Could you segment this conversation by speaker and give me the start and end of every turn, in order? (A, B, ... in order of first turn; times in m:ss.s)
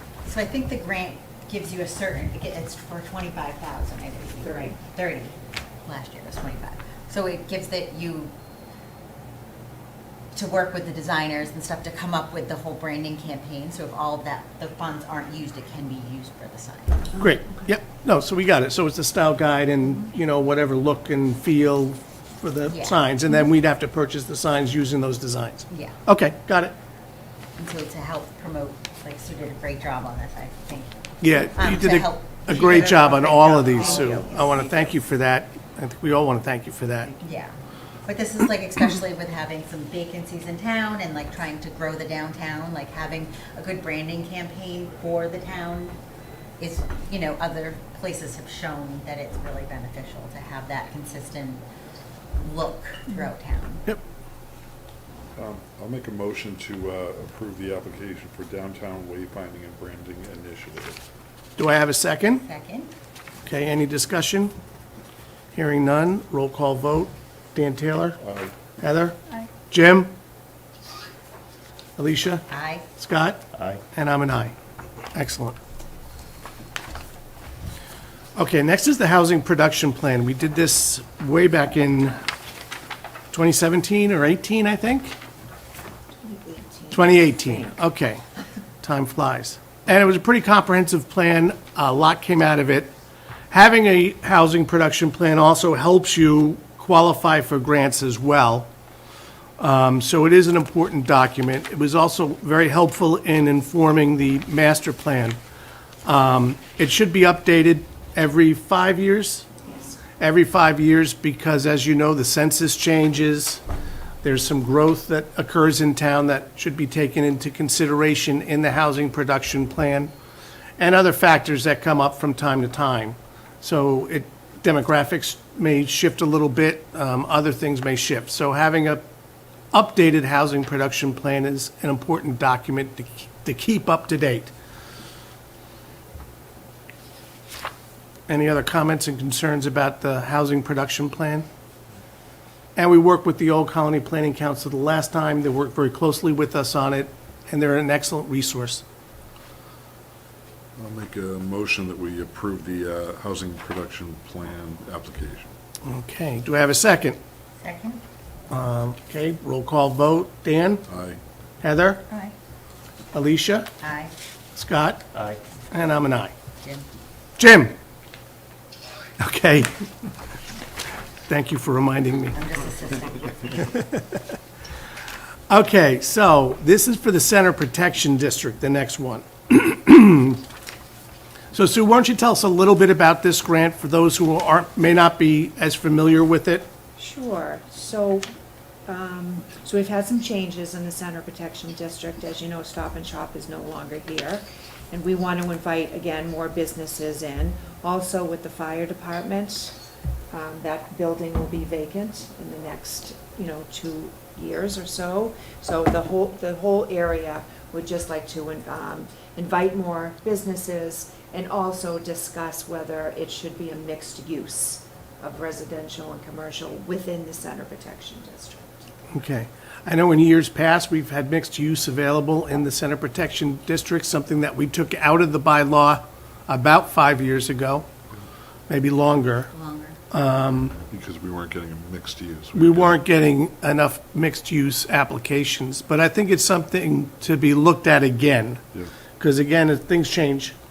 0:00.2-0:08.3 A
0:04.4-0:04.8 B
0:10.3-0:17.1 A
0:17.2-0:26.8 C
0:22.7-0:23.0 A
0:25.7-0:26.0 A
0:27.6-0:34.3 A
0:31.2-0:37.1 C
0:32.6-0:34.9 B
0:37.2-0:37.5 A
0:38.0-0:46.0 A
0:46.6-0:51.6 A
0:52.4-0:53.8 A
0:55.4-1:01.0 D
1:01.6-1:02.4 C
1:02.4-1:02.9 A
1:03.4-1:04.5 C
1:05.5-1:08.2 C
1:08.2-1:08.5 D
1:08.8-1:10.1 C
1:12.0-1:12.4 C
1:12.5-1:12.9 A
1:13.0-1:14.5 C
1:15.1-1:15.6 C
1:18.4-1:22.2 C
1:23.3-1:25.2 C
1:26.2-1:27.7 B
1:26.9-1:28.2 C
1:28.8-1:32.9 C
1:33.5-1:38.7 C
1:39.6-1:45.4 C
1:46.0-1:49.4 C
1:49.7-1:50.0 B
1:50.2-1:53.6 C
1:54.2-2:00.1 C
2:00.8-2:09.0 C
2:09.7-2:14.5 C
2:18.3-2:21.4 C
2:22.8-2:28.8 C
2:30.8-2:35.5 D
2:35.8-2:37.2 C
2:37.6-2:38.0 A
2:38.5-2:40.8 C
2:40.9-2:41.2 D
2:41.6-2:42.0 C
2:42.1-2:42.3 A
2:43.1-2:43.7 C
2:43.8-2:44.1 A
2:44.5-2:45.1 C
2:45.7-2:46.3 C
2:47.4-2:47.7 C
2:49.2-2:49.7 C
2:51.2-2:52.4 C
2:52.3-2:53.7 A
2:53.7-2:54.2 C
2:55.5-3:00.4 C
3:01.5-3:06.7 C
3:07.0-3:08.2 B
3:08.9-3:19.7 B
3:20.3-3:38.8 B
3:39.1-3:47.9 C
3:48.7-3:49.5 C
3:49.5-3:50.0 A
3:50.1-3:50.8 C
3:50.9-3:53.0 D
3:52.5-3:58.6 C
3:59.2-4:00.5 C